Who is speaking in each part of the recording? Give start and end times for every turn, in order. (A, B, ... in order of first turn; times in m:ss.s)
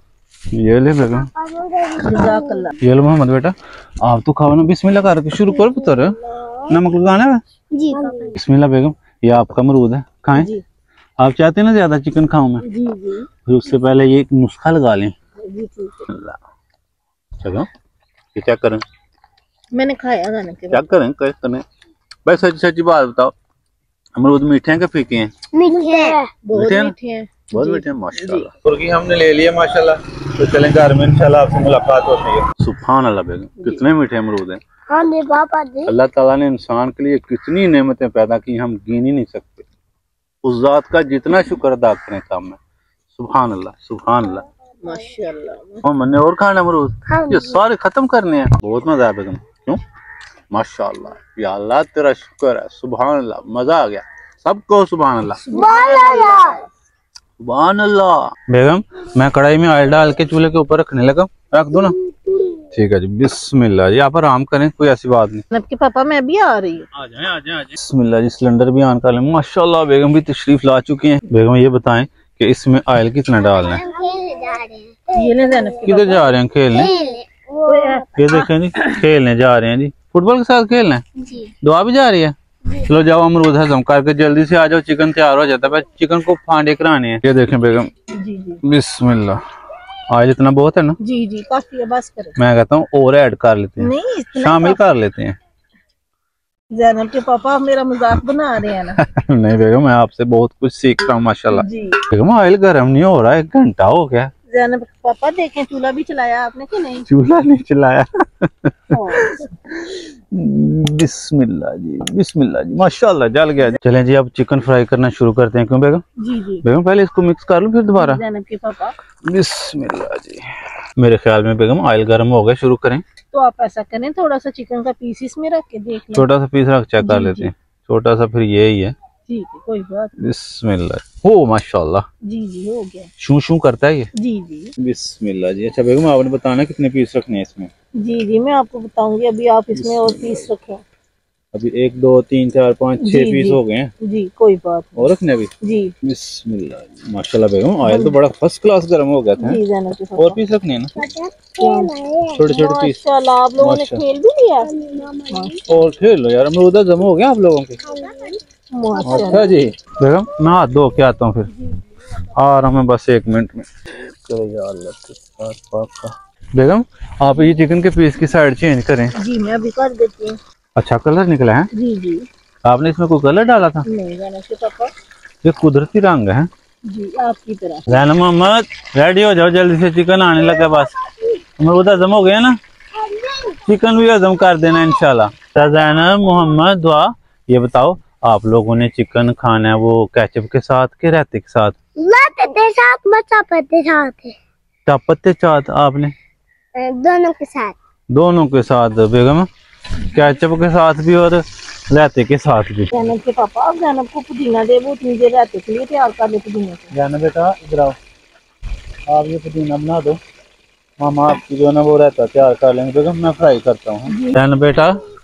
0:00.5-0:01.3 A
0:01.2-0:02.8 B
0:02.0-0:02.8 C
0:02.8-0:07.4 A
0:05.5-0:06.5 B
0:07.8-0:08.4 B
0:07.9-0:08.4 C
0:08.4-0:10.5 A
0:10.3-0:10.6 C
0:11.2-0:12.6 A
0:12.6-0:13.3 C
0:13.4-0:15.1 A
0:15.4-0:16.1 C
0:16.1-0:16.4 A
0:17.4-0:17.7 A
0:18.3-0:18.8 A
0:19.7-0:20.8 C
0:20.7-0:21.6 A
0:22.2-0:23.3 A
0:24.2-0:25.3 A
0:25.5-0:26.3 B
0:25.9-0:28.5 C
0:26.5-0:26.9 A
0:27.5-0:34.6 A
0:34.9-0:35.9 B
0:35.9-0:39.7 A
0:40.4-0:42.6 A
0:43.1-0:44.4 A
0:44.8-0:45.8 C
0:45.8-0:49.8 A
0:47.1-0:47.6 B
0:50.5-0:55.4 A
0:55.4-0:56.6 C
0:55.5-0:56.6 B
0:57.4-1:02.0 A
1:02.0-1:02.6 B
1:02.7-1:05.4 A
1:05.5-1:06.9 C
1:06.9-1:13.8 A
1:13.4-1:15.9 B
1:15.1-1:16.9 C
1:15.8-1:16.9 A
1:16.7-1:18.1 B
1:17.6-1:18.5 C
1:18.2-1:21.0 A
1:21.2-1:21.5 B
1:21.6-1:27.9 A
1:28.2-1:28.6 C
1:28.6-1:29.4 A
1:30.1-1:31.0 A
1:31.0-1:32.4 C
1:32.4-1:35.4 A
1:33.8-1:34.8 C
1:36.7-1:39.0 C
1:39.0-1:44.3 A
1:41.5-1:42.0 C
1:44.5-1:47.1 C
1:47.1-1:56.0 A
1:48.9-1:49.5 C
1:56.2-1:56.6 C
1:56.6-1:58.2 A
1:58.0-1:59.0 C
1:59.2-2:03.0 A
2:03.3-2:06.3 C
2:06.1-2:09.0 A
2:07.0-2:07.5 C
2:09.3-2:10.1 C
2:10.2-2:12.0 A
2:12.2-2:13.1 C
2:13.2-2:14.1 A
2:14.2-2:14.7 C
2:14.8-2:17.7 A
2:18.0-2:20.8 C
2:19.7-2:20.5 A
2:21.5-2:23.9 A
2:23.0-2:25.9 C
2:25.0-2:25.5 A
2:26.0-2:29.6 A
2:27.8-2:28.2 C
2:29.4-2:30.4 C
2:30.2-2:31.0 A
2:31.0-2:32.5 B
2:31.6-2:31.9 C
2:32.3-2:33.0 A
2:32.5-2:34.7 C
2:33.6-2:34.0 A
2:34.6-2:35.6 B
2:35.3-2:35.6 C
2:35.7-2:37.8 A
2:37.8-2:38.4 B
2:38.7-2:39.5 C
2:39.0-2:41.5 A
2:39.1-2:39.4 B
2:42.2-2:49.1 A
2:49.2-2:50.4 C
2:50.8-2:51.7 A
2:51.7-2:52.3 C
2:52.6-2:53.9 A
2:53.9-2:54.9 C
2:55.4-2:56.5 A
2:56.9-2:57.9 C
2:57.9-3:01.0 A
3:01.6-3:02.6 A
3:03.0-3:03.6 B
3:03.6-3:11.8 A
3:12.0-3:14.4 B
3:14.9-3:16.1 A
3:16.8-3:17.8 B
3:18.1-3:19.5 A
3:20.0-3:23.1 A
3:22.9-3:26.9 C
3:26.9-3:28.0 A
3:29.1-3:30.2 A
3:31.0-3:35.0 A
3:34.1-3:34.4 C